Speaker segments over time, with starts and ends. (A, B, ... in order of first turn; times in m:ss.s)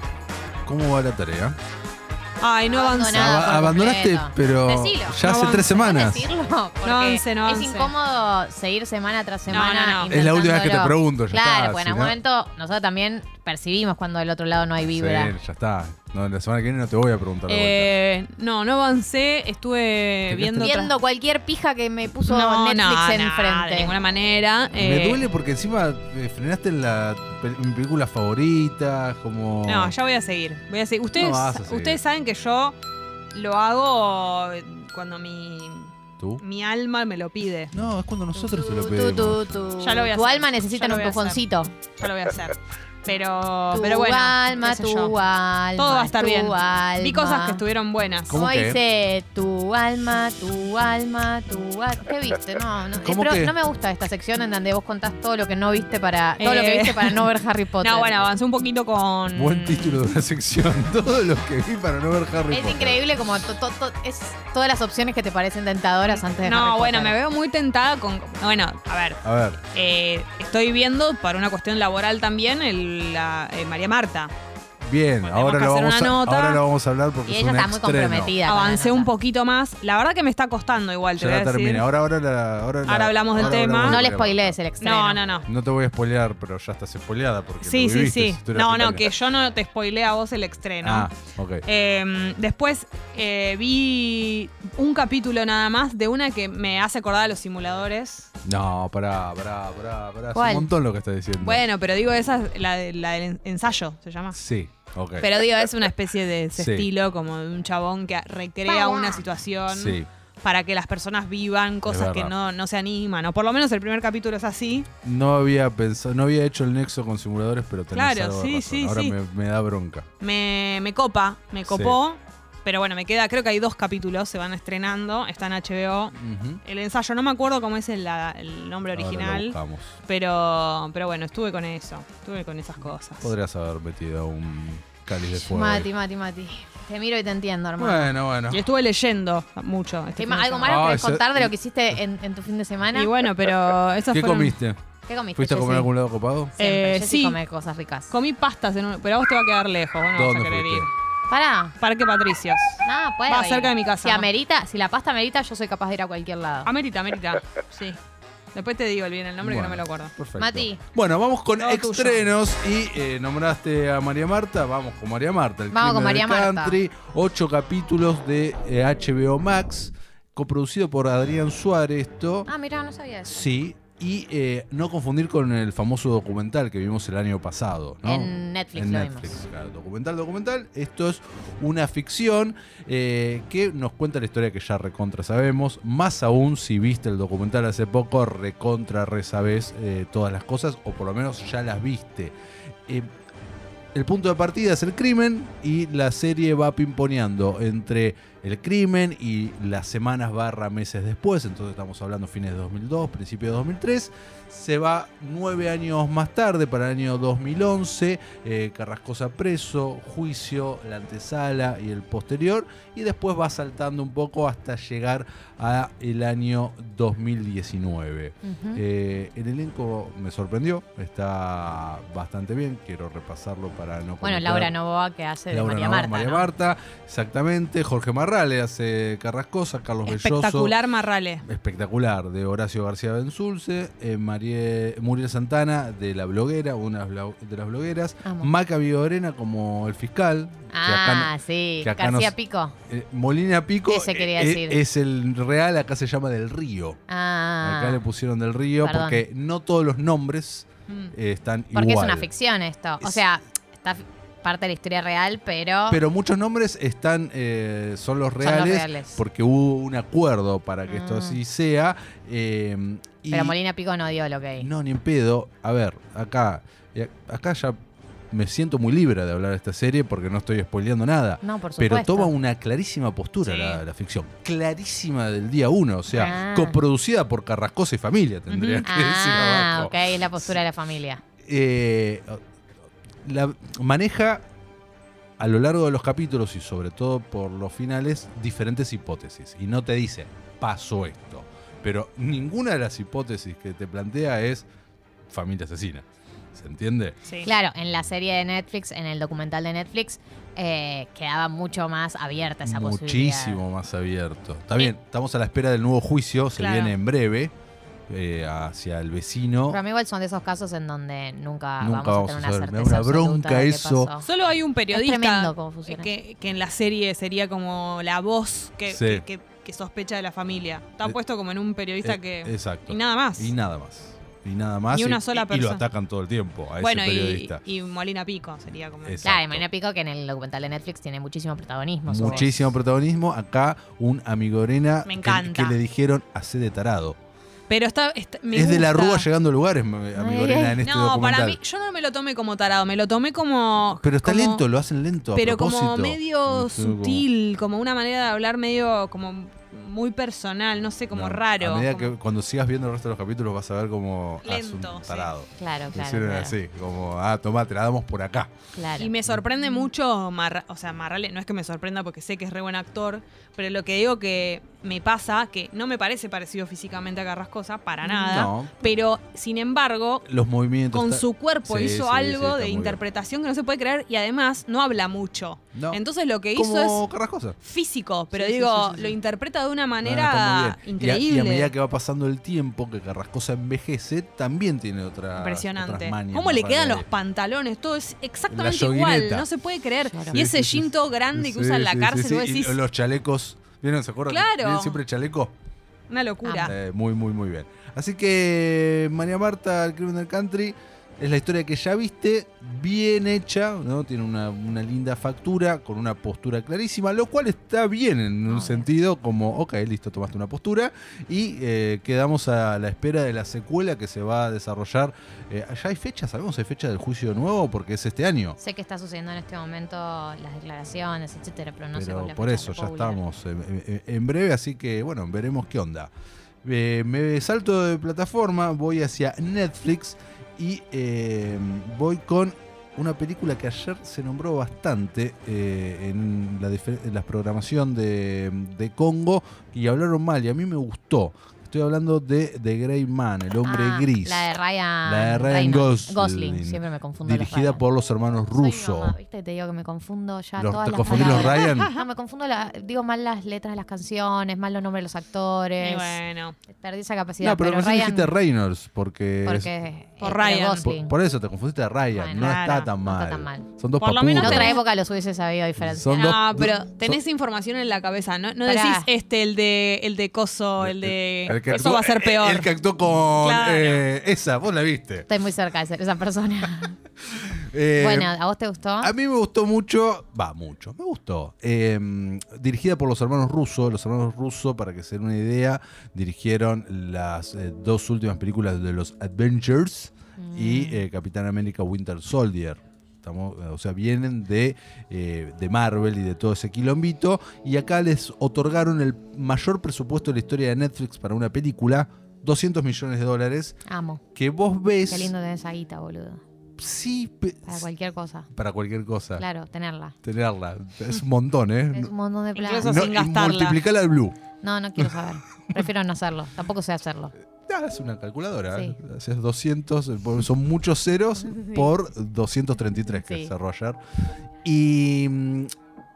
0:00.6-0:01.6 A
0:02.4-0:03.5 B
0:02.7-0:15.4 C
0:03.0-0:06.3 A
0:05.2-0:05.8 B
0:06.8-0:07.9 B
0:09.5-0:10.2 B
0:10.1-0:12.2 A
0:14.9-0:17.9 A
0:17.5-0:20.9 B
0:20.3-0:20.7 A
0:20.6-0:24.0 C
0:22.3-0:25.3 B
0:24.8-0:30.0 A
0:29.7-0:32.8 B
0:31.1-0:32.0 A
0:33.3-0:37.7 B
0:37.7-0:39.5 A
0:38.3-0:41.7 C
0:39.8-0:41.4 B
0:42.0-0:45.1 B
0:43.7-0:47.6 C
0:45.8-0:48.4 B
0:48.3-0:48.8 A
0:48.3-0:58.2 C
0:53.0-0:53.6 A
0:56.4-1:00.0 B
0:59.3-1:03.0 A
1:02.5-1:07.2 C
1:06.1-1:14.3 B
1:09.2-1:09.6 A
1:14.8-1:18.4 A
1:15.2-1:16.6 B
1:17.2-1:19.1 C
1:18.4-1:21.9 B
1:21.2-1:24.6 A
1:22.8-1:24.0 B
1:23.4-1:25.2 C
1:24.8-1:25.5 B
1:25.4-1:29.1 A
1:27.6-1:31.1 B
1:30.8-1:31.6 A
1:31.6-1:38.3 B
1:38.4-1:41.6 A
1:40.3-1:40.7 C
1:41.4-1:44.4 B
1:44.3-1:45.3 A
1:45.2-1:54.9 B
1:46.5-1:46.9 A
1:48.7-1:49.2 C
1:49.7-1:50.1 A
1:51.9-1:52.3 A
1:55.0-2:00.1 A
1:57.9-1:59.2 B
2:00.2-2:13.3 B
2:01.6-2:02.0 A
2:06.2-2:06.6 A
2:08.9-2:10.0 A
2:13.2-2:15.9 A
2:15.2-2:18.2 C
2:17.8-2:18.6 A
2:18.5-2:20.8 B
2:20.2-2:23.1 C
2:20.6-2:21.5 A
2:22.9-2:24.6 B
2:24.1-2:24.8 A
2:25.1-2:25.9 C
2:25.3-2:26.5 A
2:26.6-2:28.1 C
2:26.6-2:27.4 B
2:28.1-2:30.9 B
2:30.1-2:30.9 A
2:31.3-2:31.8 C
2:31.8-2:34.3 B
2:32.8-2:36.7 C
2:36.6-2:38.0 B
2:38.5-2:40.1 B
2:39.4-2:52.5 A
2:40.4-2:40.8 C
2:41.6-2:42.2 B
2:45.7-2:46.8 C
2:52.5-2:53.6 C
2:53.2-3:12.3 A
2:58.0-2:59.4 C
3:13.9-3:44.7 A
3:38.4-3:38.8 C
3:44.2-3:46.5 C
3:45.5-3:50.8 A
3:50.0-3:51.4 B
3:51.4-4:02.3 A
3:58.2-3:58.5 C
4:00.7-4:02.8 C
4:02.9-4:07.0 A
4:03.9-4:04.8 C
4:07.1-4:08.0 C
4:07.6-4:12.3 A
4:08.8-4:09.2 C
4:11.7-4:16.0 C
4:15.9-4:23.6 A
4:18.4-4:19.2 C
4:20.9-4:21.4 C
4:23.3-4:24.7 C
4:24.6-4:27.8 A
4:28.3-4:40.6 A
4:31.4-4:32.3 C
4:33.4-4:33.8 B
4:36.1-4:36.8 C
4:38.5-4:38.9 B
4:38.8-4:41.2 C
4:41.4-4:42.4 A
4:43.2-4:44.4 A
4:45.4-4:54.7 A
4:55.3-4:57.2 A
4:57.4-5:03.6 C
5:02.6-5:07.5 A
5:06.6-5:07.0 B
5:08.1-5:09.8 A
5:09.7-5:14.3 C
5:11.8-5:14.1 A
5:14.2-5:23.5 B
5:14.9-5:16.1 C
5:18.9-5:19.2 A
5:22.0-5:27.6 A
5:24.9-5:25.8 B
5:26.8-5:29.2 B
5:29.0-5:29.6 A
5:29.2-5:32.8 C
5:32.1-5:37.2 A
5:32.2-5:32.5 B
5:35.1-5:35.8 B
5:37.7-5:39.3 B
5:38.5-5:41.6 A
5:40.2-5:40.8 C
5:40.8-5:44.7 B
5:44.0-5:47.2 A
5:45.4-5:52.0 B
5:51.1-5:58.5 A
5:54.4-5:55.3 B
5:55.6-5:56.6 C
5:58.7-5:59.1 C
5:59.0-6:10.3 B
6:08.2-6:08.8 A
6:10.3-6:13.0 A
6:10.9-6:17.0 B
6:15.7-6:16.0 A
6:16.5-6:17.6 A
6:17.6-6:21.7 B
6:18.3-6:19.2 A
6:20.0-6:27.1 A
6:25.4-6:32.8 B
6:28.5-6:29.5 A
6:30.0-6:30.4 C
6:30.2-6:35.5 A
6:34.3-6:35.0 B
6:36.1-6:36.8 B
6:36.4-6:36.7 C
6:36.6-6:58.6 A
6:48.5-6:48.9 C
6:58.6-7:03.2 C
7:01.9-7:06.1 A
7:06.6-7:24.5 A
7:23.6-7:27.8 C
7:25.0-7:29.2 A
7:28.5-7:38.4 C
7:30.6-7:31.9 A
7:31.1-7:32.0 B
7:35.8-7:36.6 B
7:37.4-7:39.7 A
7:39.4-7:41.2 C
7:40.2-7:40.9 B
7:40.8-7:44.8 A
7:42.1-7:43.7 C
7:42.3-7:42.9 B
7:44.0-7:44.8 B
7:44.4-7:46.4 C
7:45.8-7:47.2 A
7:46.1-7:52.7 B
7:48.6-7:49.1 C
7:50.8-7:55.3 A
7:53.4-7:54.0 B
7:55.3-7:57.0 C
7:57.6-7:58.3 A
7:58.0-7:59.1 C
7:59.0-8:23.8 A
8:10.4-8:11.0 C
8:23.9-8:24.2 C
8:24.4-8:25.3 A
8:25.1-8:26.4 C
8:26.8-8:27.8 A
8:27.6-8:28.5 C
8:28.5-8:29.4 A
8:29.4-8:30.1 C
8:30.2-8:32.1 A
8:31.9-8:33.0 C
8:32.6-8:33.8 B
8:32.8-8:34.4 A
8:34.6-8:37.3 C
8:37.6-8:44.0 A
8:38.7-8:39.0 C
8:41.4-8:41.9 C
8:43.1-8:43.5 C
8:44.6-8:45.7 A